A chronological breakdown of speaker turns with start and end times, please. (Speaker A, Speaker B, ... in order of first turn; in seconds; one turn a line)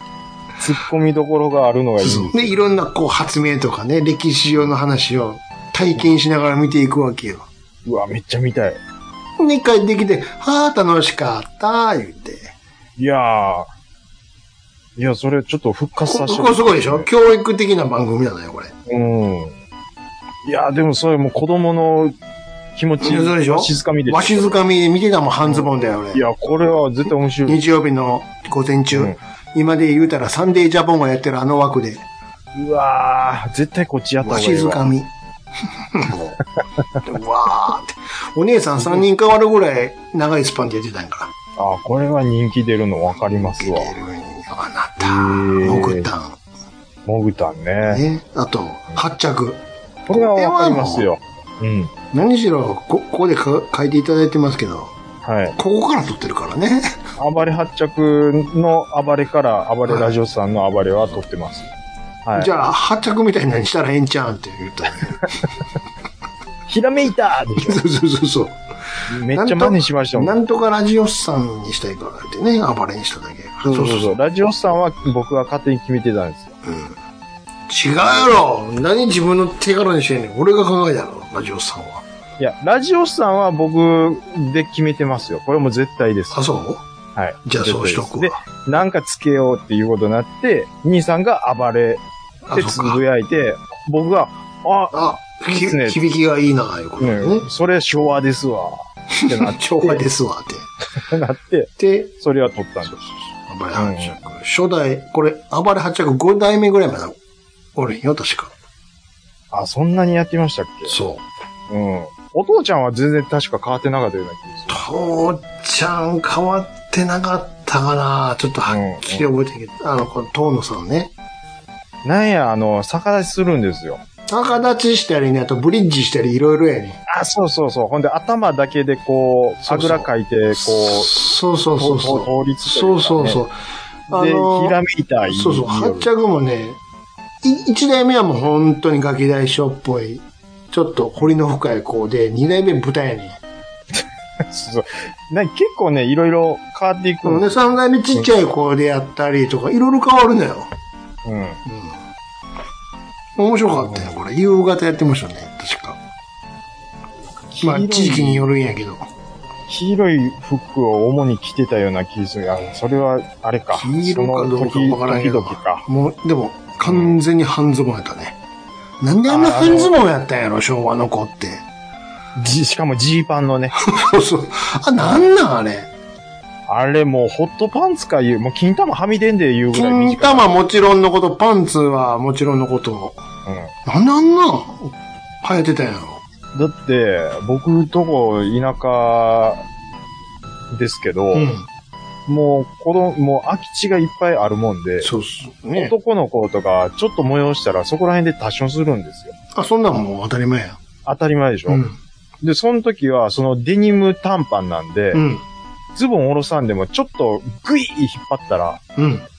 Speaker A: 0.6-2.5
Speaker B: 2.0-7.5
Speaker A: 7.8-8.8
Speaker B: 9.4-12.5
Speaker A: 13.0-13.7
Speaker A: 15.0-17.1
Speaker B: 16.0-18.7
Speaker A: 18.9-19.5
Speaker A: 20.4-22.1
Speaker A: 22.7-24.6
Speaker B: 23.0-26.2
Speaker A: 25.4-27.6
Speaker B: 27.5-32.0
Speaker A: 28.9-29.2
Speaker A: 32.5-34.9
Speaker B: 34.2-35.1
Speaker B: 35.9-36.4
Speaker B: 37.0-41.3
Speaker A: 41.6-43.9
Speaker B: 43.2-46.4
Speaker A: 45.0-46.1
Speaker A: 47.0-48.0
Speaker B: 47.8-51.1
Speaker A: 50.1-51.9
Speaker B: 52.1-54.9
Speaker A: 55.2-55.5
Speaker B: 55.5-56.9
Speaker A: 57.2-61.7
Speaker B: 59.8-60.2
Speaker A: 62.2-62.5
Speaker B: 62.4-65.2
Speaker A: 66.7-67.8
Speaker B: 67.5-68.6
Speaker A: 69.1-70.4
Speaker B: 69.3-74.2
Speaker A: 73.6-76.6
Speaker B: 76.6-77.0
Speaker B: 77.7-82.0
Speaker A: 82.4-86.4
Speaker B: 86.3-86.8
Speaker A: 87.2-96.0
Speaker B: 87.4-88.4
Speaker B: 92.5-93.0
Speaker B: 94.9-97.5
Speaker A: 97.0-100.0
Speaker B: 99.2-100.7
Speaker A: 101.0-103.0
Speaker B: 101.8-102.1
Speaker B: 102.9-107.2
Speaker A: 103.8-104.2
Speaker B: 107.7-108.5
Speaker A: 109.5-111.0
Speaker B: 110.9-111.2
Speaker A: 111.7-114.8
Speaker B: 114.7-121.1
Speaker A: 118.7-119.3
Speaker A: 122.0-124.0
Speaker B: 124.3-127.0
Speaker A: 127.1-131.1
Speaker B: 129.6-133.5
Speaker A: 131.8-133.4
Speaker B: 134.1-136.8
Speaker A: 134.1-136.1
Speaker B: 137.4-143.4
Speaker A: 144.5-148.2
Speaker B: 147.2-150.7
Speaker A: 151.2-151.6
Speaker B: 151.7-151.9
Speaker B: 153.4-156.0
Speaker A: 153.7-154.1
Speaker A: 157.5-158.5
Speaker B: 157.6-159.1
Speaker A: 159.7-165.8
Speaker B: 163.7-168.4
Speaker A: 166.8-167.2
Speaker B: 169.0-171.6
Speaker A: 169.3-169.9
Speaker A: 172.3-173.8
Speaker B: 173.8-175.9
Speaker A: 176.7-180.5
Speaker B: 179.7-183.2
Speaker A: 183.4-183.7
Speaker B: 183.8-186.2
Speaker A: 186.5-189.6
Speaker A: 190.7-191.5
Speaker B: 191.3-191.7
Speaker A: 192.3-195.1
Speaker B: 195.0-195.9
Speaker A: 195.8-199.3
Speaker B: 199.5-200.8
Speaker A: 201.1-201.8
Speaker B: 201.7-202.0
Speaker A: 202.4-205.2
Speaker B: 205.1-205.4
Speaker A: 205.9-208.8
Speaker B: 209.0-209.2